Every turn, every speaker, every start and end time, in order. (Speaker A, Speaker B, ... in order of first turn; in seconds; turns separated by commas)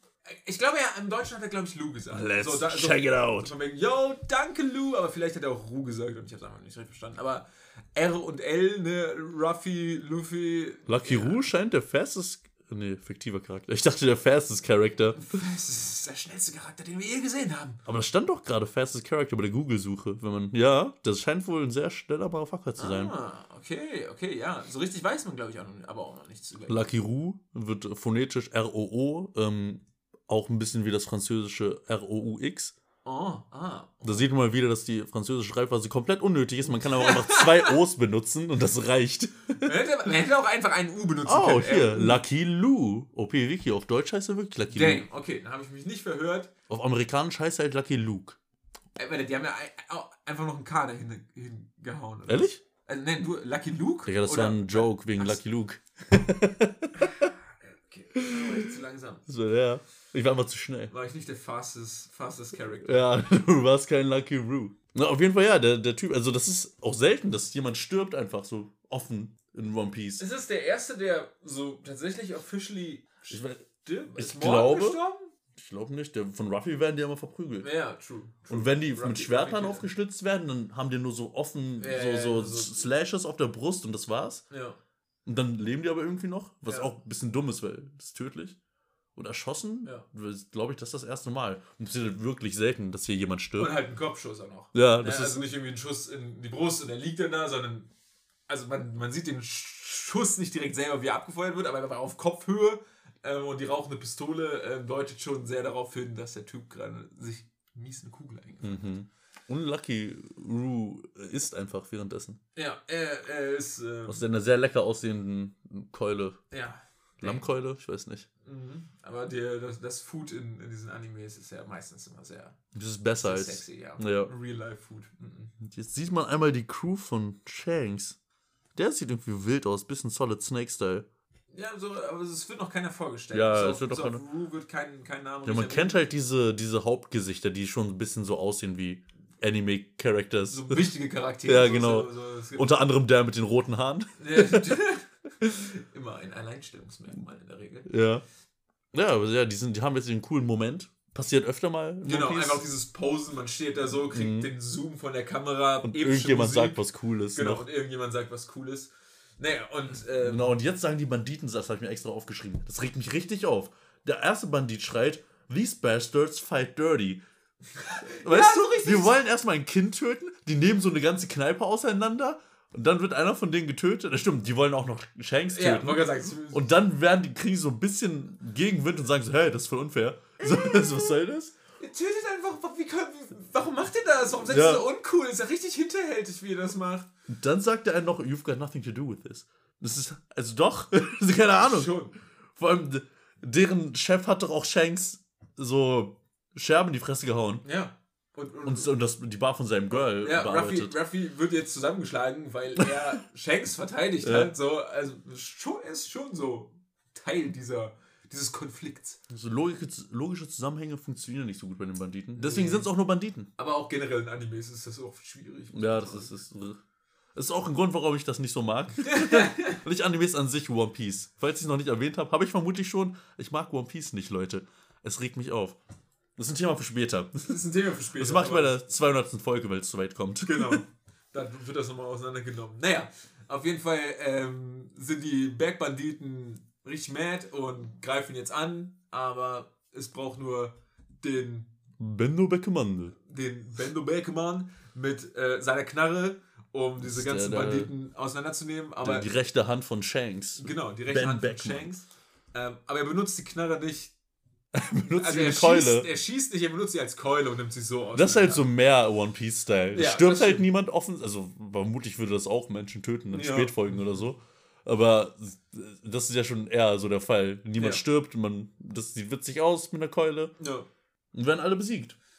Speaker A: 0.3-11.4, Speaker B: 2.1-3.5, Speaker B: 10.9-15.3, Speaker A: 15.1-17.8, Speaker B: 17.9-23.1, Speaker A: 22.8-26.8, Speaker B: 26.7-32.7, Speaker A: 33.0-34.2, Speaker B: 34.0-39.6, Speaker A: 36.8-37.8, Speaker A: 39.6-42.2, Speaker B: 41.2-45.0, Speaker A: 44.7-46.5, Speaker B: 46.7-48.4, Speaker A: 49.0-55.4, Speaker B: 52.3-52.6, Speaker B: 54.0-57.3, Speaker A: 57.0-59.2, Speaker B: 58.1-58.7, Speaker B: 59.3-60.9, Speaker A: 60.9-63.2, Speaker B: 62.8-70.2, Speaker A: 70.2-75.3, Speaker B: 73.3-75.0, Speaker B: 75.5-77.7, Speaker A: 77.6-79.9, Speaker B: 78.5-84.4, Speaker A: 81.8-82.8, Speaker A: 84.5-84.8, Speaker B: 85.2-88.6, Speaker A: 86.7-86.9, Speaker B: 89.1-93.7, Speaker A: 93.6-97.9, Speaker B: 94.7-95.4, Speaker A: 98.5-108.9, Speaker B: 108.6-112.4, Speaker A: 112.5-114.2, Speaker B: 114.1-116.4, Speaker A: 116.5-117.4, Speaker B: 117.2-118.3, Speaker A: 118.4-122.6, Speaker B: 122.7-124.3, Speaker A: 123.2-125.5, Speaker B: 125.6-128.2, Speaker B: 128.8-131.1, Speaker A: 131.5-136.1, Speaker B: 133.3-134.2, Speaker B: 135.4-140.9, Speaker A: 140.5-142.8, Speaker B: 141.4-144.7, Speaker A: 144.2-147.9, Speaker B: 147.8-148.2, Speaker B: 148.9-152.6, Speaker A: 152.0-156.8, Speaker B: 154.1-154.5, Speaker B: 155.8-157.6, Speaker A: 157.3-160.6, Speaker B: 160.2-167.2, Speaker A: 167.8-169.2, Speaker B: 168.2-181.5, Speaker A: 175.5-176.7, Speaker A: 180.4-181.2, Speaker A: 181.8-187.1, Speaker B: 184.5-184.8, Speaker B: 187.3-192.0, Speaker A: 191.6-192.1, Speaker B: 192.5-197.6, Speaker A: 197.6-198.9, Speaker B: 198.6-200.9, Speaker A: 199.9-209.2, Speaker B: 204.2-204.5, Speaker B: 209.3-213.5, Speaker A: 212.4-212.9, Speaker A: 213.6-216.3, Speaker B: 215.7-216.8, Speaker B: 217.3-225.8, Speaker A: 219.1-219.8, Speaker B: 226.4-227.5, Speaker A: 227.4-228.8, Speaker B: 228.2-230.8, Speaker A: 230.4-241.7, Speaker B: 242.0-243.2, Speaker A: 243.2-249.3, Speaker B: 247.0-247.9, Speaker B: 249.0-251.9, Speaker A: 250.6-254.1, Speaker B: 254.7-256.1, Speaker A: 255.1-258.6, Speaker B: 258.1-270.5, Speaker A: 259.9-260.6, Speaker A: 263.3-264.2, Speaker A: 267.8-268.0, Speaker A: 270.6-270.9, Speaker B: 271.3-272.2